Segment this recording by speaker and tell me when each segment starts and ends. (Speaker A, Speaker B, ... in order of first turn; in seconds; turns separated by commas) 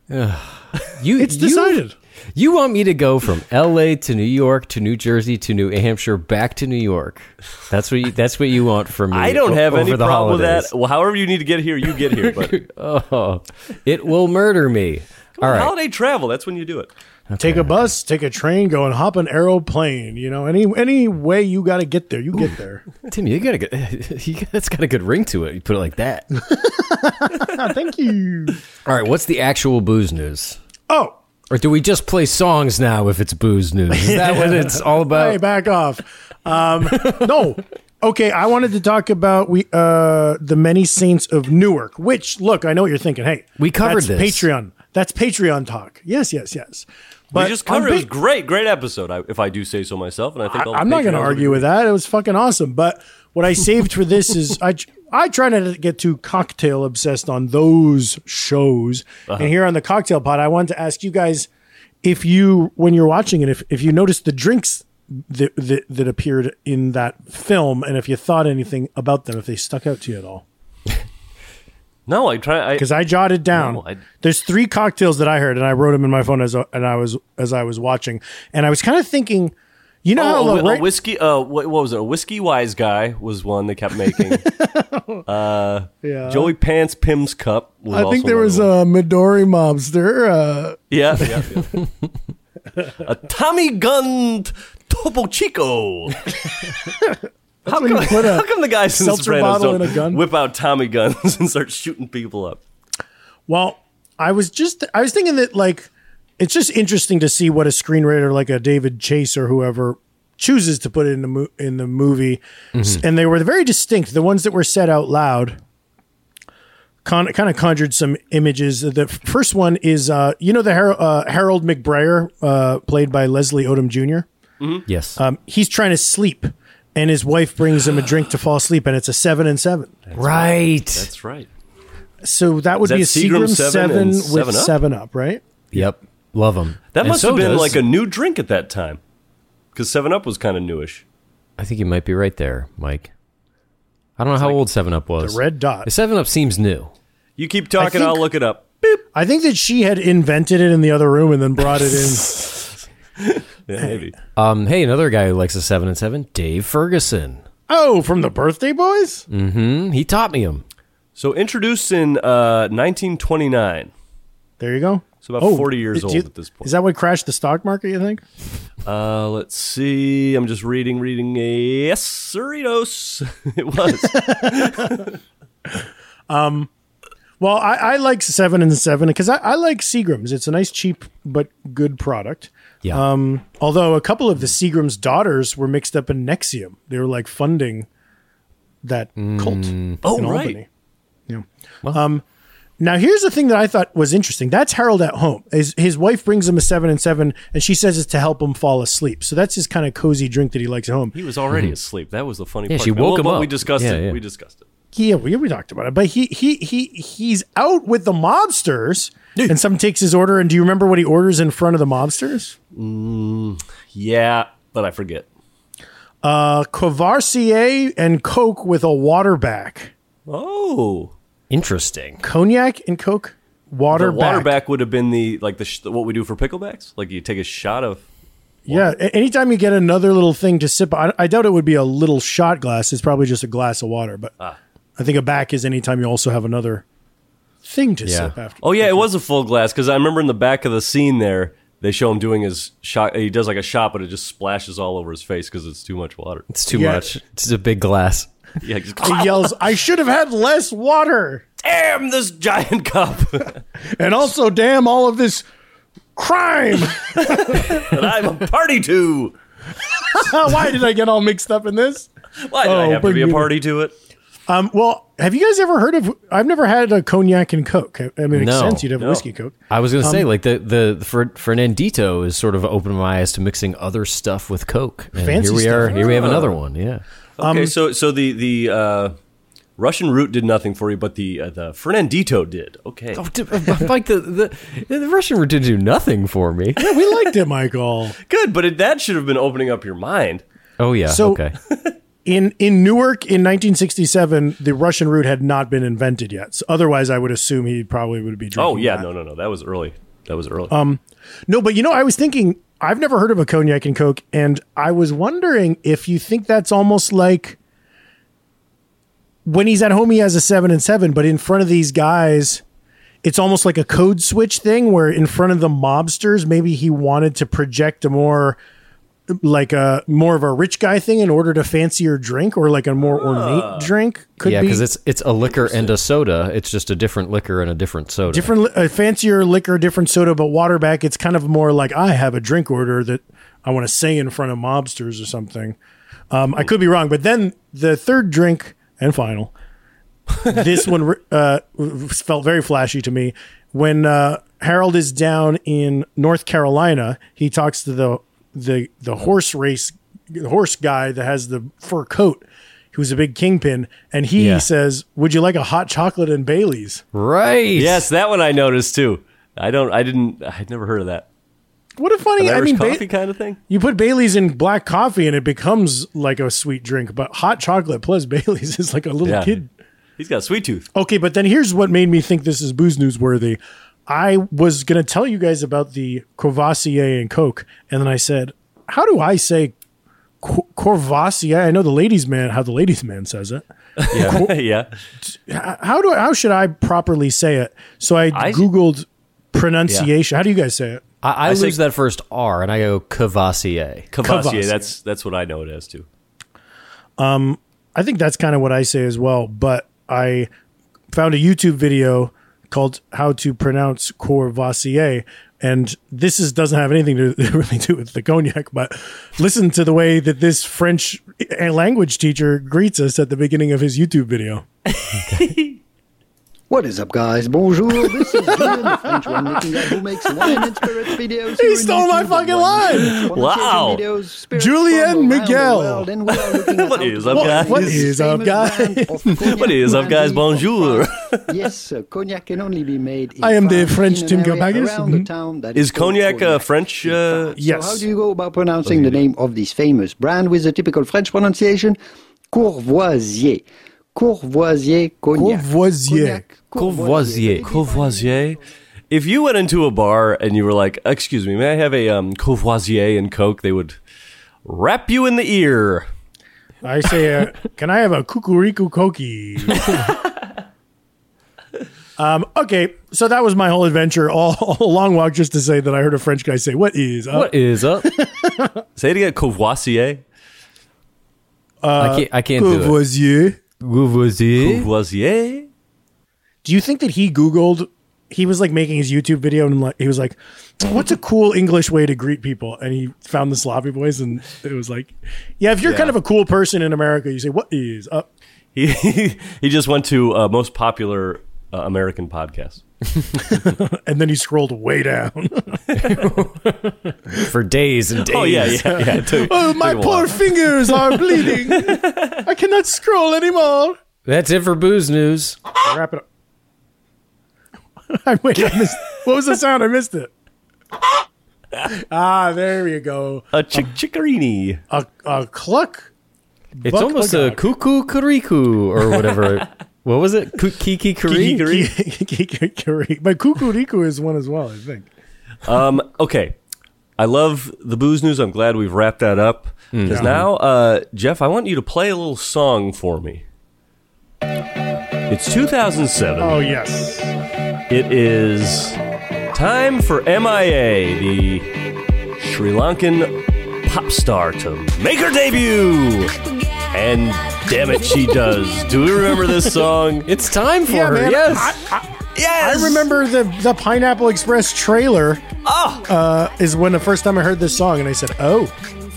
Speaker A: 0.1-1.8, Speaker B: 1.2-1.9, Speaker A: 2.4-10.7, Speaker C: 9.1-12.6, Speaker A: 12.1-15.7, Speaker C: 15.4-16.9, Speaker A: 17.3-17.9, Speaker B: 17.4-22.8, Speaker A: 23.1-26.3, Speaker B: 26.4-28.6, Speaker A: 28.9-30.6, Speaker B: 30.9-31.2, Speaker A: 31.5-35.4, Speaker B: 33.9-48.1, Speaker A: 43.6-44.5, Speaker C: 47.3-51.6, Speaker B: 50.5-61.5, Speaker B: 62.0-70.4, Speaker C: 72.1-72.9, Speaker B: 72.8-80.9, Speaker C: 73.5-74.0, Speaker C: 80.2-84.5, Speaker B: 84.3-85.2, Speaker C: 85.3-88.7, Speaker B: 86.0-86.5, Speaker B: 87.9-91.5, Speaker C: 90.9-91.8, Speaker C: 93.0-96.3, Speaker B: 97.7-100.2, Speaker C: 97.7-102.6, Speaker B: 103.5-115.6, Speaker A: 112.8-113.0, Speaker B: 117.0-124.3, Speaker C: 124.6-124.8, Speaker A: 124.9-125.2, Speaker B: 125.2-130.0, Speaker C: 130.1-131.5, Speaker A: 130.2-131.1, Speaker B: 132.2-135.4, Speaker C: 132.8-134.8, Speaker A: 135.7-137.8, Speaker C: 136.9-139.0, Speaker C: 139.7-141.0, Speaker A: 141.6-143.1, Speaker A: 144.2-146.9, Speaker B: 145.2-145.9, Speaker C: 147.4-149.0, Speaker B: 147.8-148.3, Speaker B: 149.1-152.6, Speaker C: 153.2-154.1, Speaker A: 154.4-157.4, Speaker B: 157.7-159.2, Speaker A: 159.3-160.6, Speaker C: 161.2-163.9, Speaker B: 164.6-168.2, Speaker C: 165.2-166.7, Speaker C: 168.9-175.1, Speaker B: 174.0-174.9, Speaker B: 175.7-176.7, Speaker B: 177.4-187.9, Speaker B: 188.8-190.7, Speaker A: 189.2-190.0, Speaker C: 190.0-190.6, Speaker B: 191.3-192.2, Speaker B: 192.8-201.2, Speaker C: 201.2-204.7, Speaker A: 201.5-201.8, Speaker A: 202.7-204.2, Speaker B: 204.9-212.6, Speaker C: 212.7-215.3, Speaker B: 216.2-219.9, Speaker C: 220.3-221.1, Speaker A: 221.5-222.2, Speaker B: 222.2-224.6, Speaker C: 223.9-228.1, Speaker B: 228.7-234.3, Speaker B: 235.0-236.8, Speaker B: 237.6-239.1, Speaker A: 238.1-238.3, Speaker C: 238.6-246.5, Speaker A: 246.5-248.3, Speaker B: 246.7-247.1, Speaker C: 248.6-249.6, Speaker B: 249.0-251.5, Speaker C: 251.6-253.6, Speaker B: 253.9-255.5, Speaker B: 256.2-257.8, Speaker C: 257.2-259.4, Speaker B: 260.1-262.1, Speaker C: 262.4-263.9, Speaker B: 262.6-263.5, Speaker B: 264.5-270.3, Speaker A: 268.3-268.9, Speaker C: 269.0-269.3, Speaker A: 269.7-277.0, Speaker B: 275.2-276.5, Speaker C: 275.9-276.5, Speaker C: 277.4-279.1, Speaker B: 277.4-277.7, Speaker C: 279.8-283.2, Speaker A: 283.2-286.8, Speaker B: 286.8-288.2, Speaker C: 288.3-290.4, Speaker A: 290.8-291.5, Speaker B: 291.1-291.4, Speaker B: 292.2-299.1, Speaker C: 298.6-300.8, Speaker B: 300.7-307.6, Speaker B: 309.4-312.6, Speaker B: 313.2-318.6, Speaker B: 319.3-324.8, Speaker C: 323.1-323.9, Speaker A: 324.4-328.5, Speaker C: 325.5-325.9, Speaker B: 328.3-335.8, Speaker B: 336.3-339.5, Speaker B: 340.4-357.0, Speaker A: 354.4-354.6, Speaker A: 357.1-358.1, Speaker C: 357.8-361.3, Speaker B: 362.0-363.1, Speaker C: 362.4-363.6, Speaker B: 363.7-369.7, Speaker C: 369.2-369.6, Speaker C: 370.2-370.9, Speaker B: 370.9-379.7, Speaker B: 380.4-384.6, Speaker C: 384.0-384.9, Speaker A: 384.1-384.4, Speaker B: 385.2-391.0, Speaker C: 388.3-388.7, Speaker A: 391.2-394.1, Speaker C: 391.4-391.8, Speaker C: 394.1-396.1, Speaker B: 394.2-394.9, Speaker B: 397.2-400.5, Speaker B: 401.1-414.7, Speaker C: 415.3-415.8, Speaker D: 416.7-442.0, Speaker B: 418.5-419.6, Speaker B: 420.4-420.7, Speaker B: 421.5-423.3, Speaker C: 423.1-424.0, Speaker B: 424.6-426.1, Speaker C: 426.3-428.1, Speaker B: 427.3-429.5, Speaker C: 429.4-431.7, Speaker B: 433.4-435.3, Speaker C: 435.8-437.6, Speaker B: 437.6-438.1, Speaker C: 438.9-439.2, Speaker D: 442.5-448.6, Speaker B: 445.3-446.4, Speaker A: 446.8-447.7, Speaker C: 447.6-448.6, Speaker C: 449.1-454.0, Speaker C: 454.6-456.1, Speaker B: 456.8-459.9, Speaker B: 462.2-468.8, Speaker A: 467.3-468.1, Speaker C: 469.0-470.2, Speaker B: 471.8-473.6, Speaker A: 472.0-473.0, Speaker A: 473.8-474.9, Speaker C: 474.6-475.7, Speaker B: 476.6-488.3, Speaker C: 485.8-486.1, Speaker C: 488.8-492.8, Speaker B: 493.4-496.1, Speaker A: 495.9-499.0, Speaker C: 498.3-502.4, Speaker B: 498.9-504.0, Speaker A: 504.3-505.6, Speaker B: 505.8-506.2, Speaker B: 508.1-510.3, Speaker B: 511.9-513.8, Speaker C: 513.5-514.8, Speaker B: 514.9-516.1, Speaker B: 516.8-517.6, Speaker A: 516.9-521.8, Speaker C: 519.2-519.5, Speaker C: 521.3-521.9, Speaker B: 521.6-525.1, Speaker C: 525.6-526.5, Speaker C: 527.2-533.4, Speaker A: 529.9-530.4, Speaker B: 530.1-530.4, Speaker C: 535.3-536.6, Speaker B: 536.4-537.4, Speaker C: 537.9-539.0, Speaker C: 539.5-541.7, Speaker C: 542.4-543.3, Speaker C: 543.8-550.3, Speaker A: 550.2-551.8, Speaker B: 550.9-555.5, Speaker C: 552.4-553.1, Speaker C: 555.6-556.1, Speaker B: 556.0-558.7